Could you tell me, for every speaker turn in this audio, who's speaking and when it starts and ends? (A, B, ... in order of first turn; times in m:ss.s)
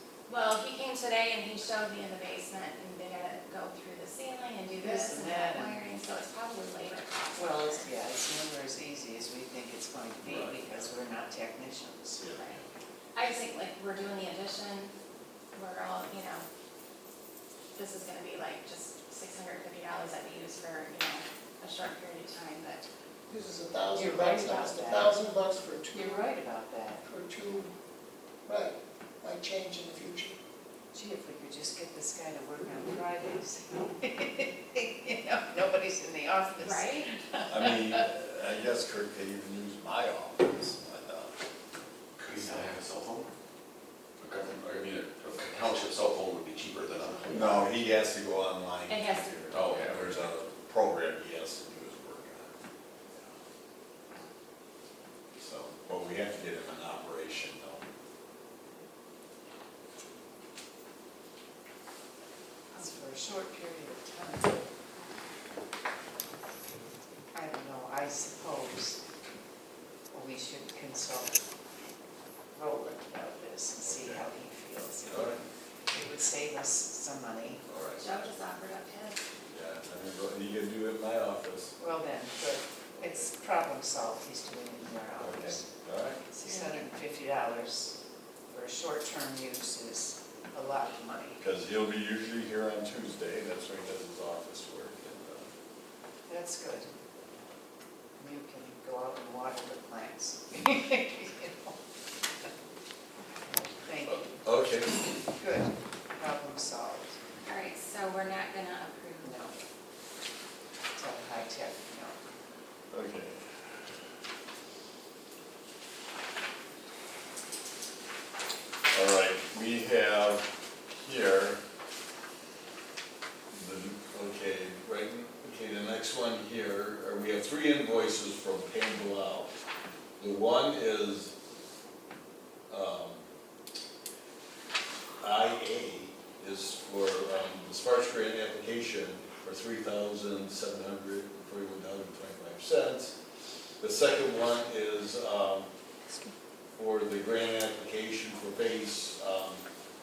0:00.3-0:07.9 A
0:04.8-0:05.9 B
0:07.3-0:12.2 B
0:10.2-0:10.9 C
0:12.2-0:12.6 C
0:12.3-0:12.6 A
0:13.1-0:14.9 A
0:15.5-0:16.4 A
0:17.7-0:22.9 A
0:23.3-0:26.3 D
0:23.9-0:25.1 B
0:25.9-0:27.0 B
0:27.0-0:27.7 D
0:28.4-0:30.4 D
0:30.9-0:38.1 B
0:36.6-0:37.2 A
0:37.5-0:41.3 C
0:42.2-0:43.3 E
0:44.2-0:47.8 E
0:47.3-0:52.5 C
0:48.9-0:49.4 A
0:49.5-0:50.3 E
0:55.4-0:57.8 C
1:02.7-1:04.7 B
1:07.3-1:09.0 B
1:10.1-1:11.4 B
1:12.5-1:17.6 B
1:13.8-1:14.2 C
1:15.0-1:15.4 C
1:17.7-1:18.0 C
1:18.0-1:19.2 A
1:19.5-1:21.7 C
1:21.8-1:25.7 B
1:23.0-1:23.3 C
1:25.2-1:26.2 C
1:26.2-1:28.0 B
1:26.4-1:26.8 A
1:28.5-1:31.4 B
1:31.4-1:35.5 C
1:36.3-1:36.9 B
1:38.2-1:41.7 B
1:43.8-1:44.4 B
1:44.0-1:45.2 C
1:45.3-1:47.2 B
1:47.4-1:49.4 A
1:49.2-1:49.6 B
1:51.0-1:52.2 B
1:52.9-1:53.4 C
1:58.9-2:01.6 C
2:03.5-2:09.6 C
2:10.2-2:11.3 C
2:12.7-2:13.2 C
2:15.2-2:23.1 C
2:23.8-2:25.7 C
2:26.7-2:29.6 C